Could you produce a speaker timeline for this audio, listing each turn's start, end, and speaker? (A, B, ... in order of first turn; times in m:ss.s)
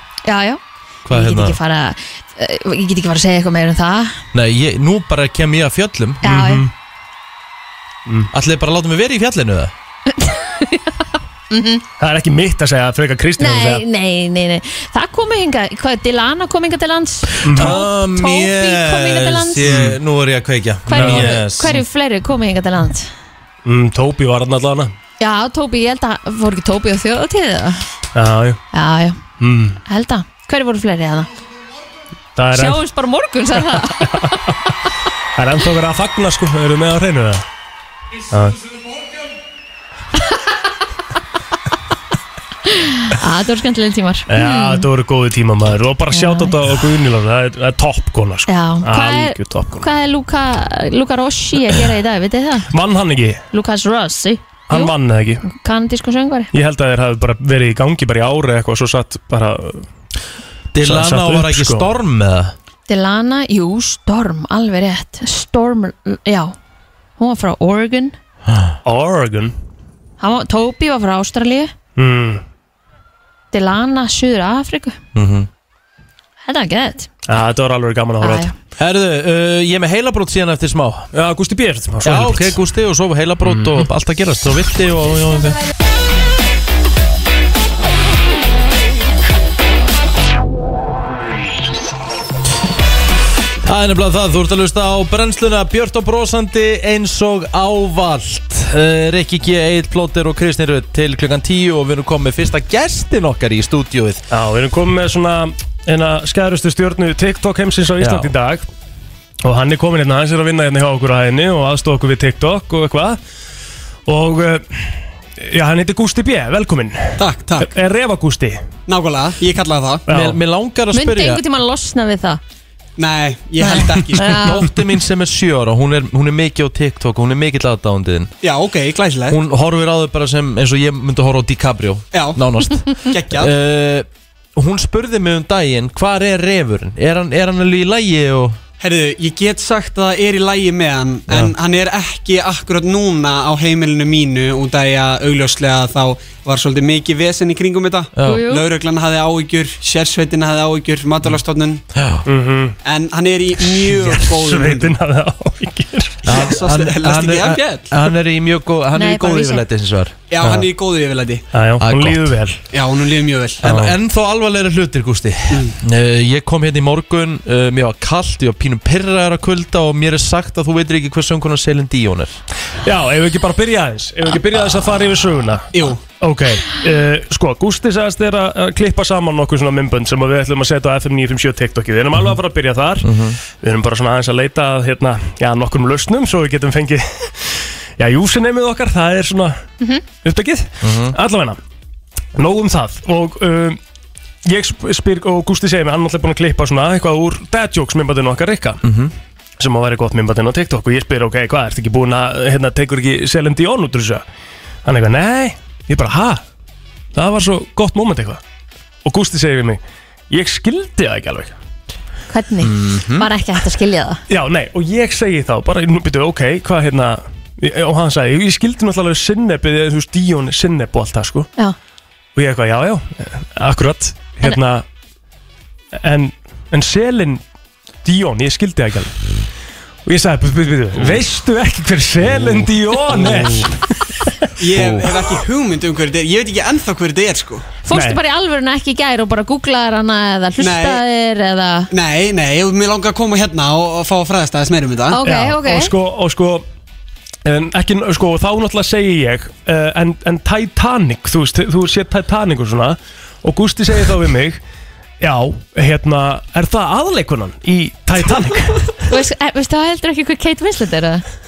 0:00.2-0:04.2 A
0:01.1-0:01.6 B
0:04.3-0:06.2 B
0:06.2-0:06.7 A
0:06.2-0:06.7 C
0:08.3-0:09.7 B
0:10.2-0:10.9 A
0:11.5-0:11.8 A
0:12.0-0:13.8 C
0:13.4-0:19.8 A
0:17.4-0:21.8 B
0:17.4-0:17.8 C
0:19.7-0:20.0 C
0:20.9-0:23.1 A
0:20.9-0:21.8 C
0:23.6-0:24.9 C
0:25.2-0:27.8 A
0:28.1-0:28.6 C
0:28.7-0:29.2 A
0:29.4-0:29.8 C
0:29.9-0:31.3 A
0:32.4-0:32.8 C
0:32.5-0:34.1 A
0:33.6-0:34.6 C
0:35.4-0:37.4 C
0:38.3-0:38.6 C
0:42.7-0:44.8 A
0:44.3-0:49.9 C
0:46.1-0:46.5 A
0:48.5-0:52.7 A
0:52.7-0:53.4 C
0:53.5-0:54.9 A
0:54.7-0:55.4 C
0:55.4-0:56.5 A
0:56.5-0:59.9 C
1:00.7-1:02.6 B
1:00.8-1:01.9 C
1:02.9-1:06.6 A
1:07.2-1:08.2 A
1:08.8-1:09.5 C
1:10.2-1:11.7 A
1:12.0-1:12.4 C
1:13.5-1:15.0 A
1:15.2-1:15.5 B
1:16.4-1:17.1 A
1:17.3-1:18.5 C
1:18.2-1:18.5 A
1:18.8-1:21.1 B
1:21.1-1:22.6 C
1:22.0-1:25.6 B
1:23.5-1:23.8 C
1:33.6-1:44.2 B
1:44.3-1:48.7 C
1:48.0-1:48.3 B
1:49.4-1:53.2 C
1:54.1-1:58.7 C
1:57.2-1:57.7 D
1:58.9-2:00.0 D
2:00.1-2:00.4 C
2:00.1-2:01.4 B
2:00.9-2:02.4 A
2:03.0-2:04.5 D
2:03.6-2:04.7 A
2:04.3-2:08.3 B
2:08.4-2:09.4 D
2:09.3-2:18.6 B
2:12.1-2:12.4 D
2:13.1-2:13.5 D
2:18.8-2:31.8 D
2:21.3-2:21.5 B
2:28.2-2:28.5 B
2:28.2-2:28.7 A
2:31.9-2:32.2 B
2:32.3-2:32.8 C
2:32.8-2:35.0 D
2:33.8-2:36.5 C
2:36.2-2:40.1 B
2:36.3-2:38.0 D
2:39.0-2:39.6 A
2:40.3-2:41.4 D
2:40.4-2:40.7 C
2:41.5-2:42.6 C
2:41.8-2:42.4 B
2:42.7-2:43.7 D
2:43.6-2:52.4 B
2:43.6-2:43.9 C
2:52.8-3:03.1 C
2:55.7-2:56.0 D
3:03.0-3:03.4 B
3:03.6-3:09.6 C
3:10.2-3:11.6 C
3:10.8-3:11.2 B
3:12.4-3:13.8 C
3:14.4-3:18.8 C
3:18.8-3:19.1 B
3:19.6-3:24.2 C
3:24.8-3:26.4 C
3:27.2-3:28.4 C
3:29.0-3:31.5 C
3:32.3-3:34.2 A
3:32.6-3:33.3 B
3:34.3-3:41.5 C
3:42.4-3:44.8 C
3:46.0-3:47.4 C
3:48.0-3:49.1 C
3:50.1-3:55.2 C
3:53.2-3:53.6 D
3:53.2-3:53.6 B
3:54.6-3:57.7 D
3:54.8-3:55.0 B
3:57.9-4:01.9 A
3:57.9-3:58.2 C
4:00.6-4:01.0 D
4:01.9-4:05.2 D
4:05.1-4:05.9 A
4:05.2-4:06.6 C
4:07.4-4:14.6 C
4:15.2-4:18.9 C
4:19.1-4:21.2 A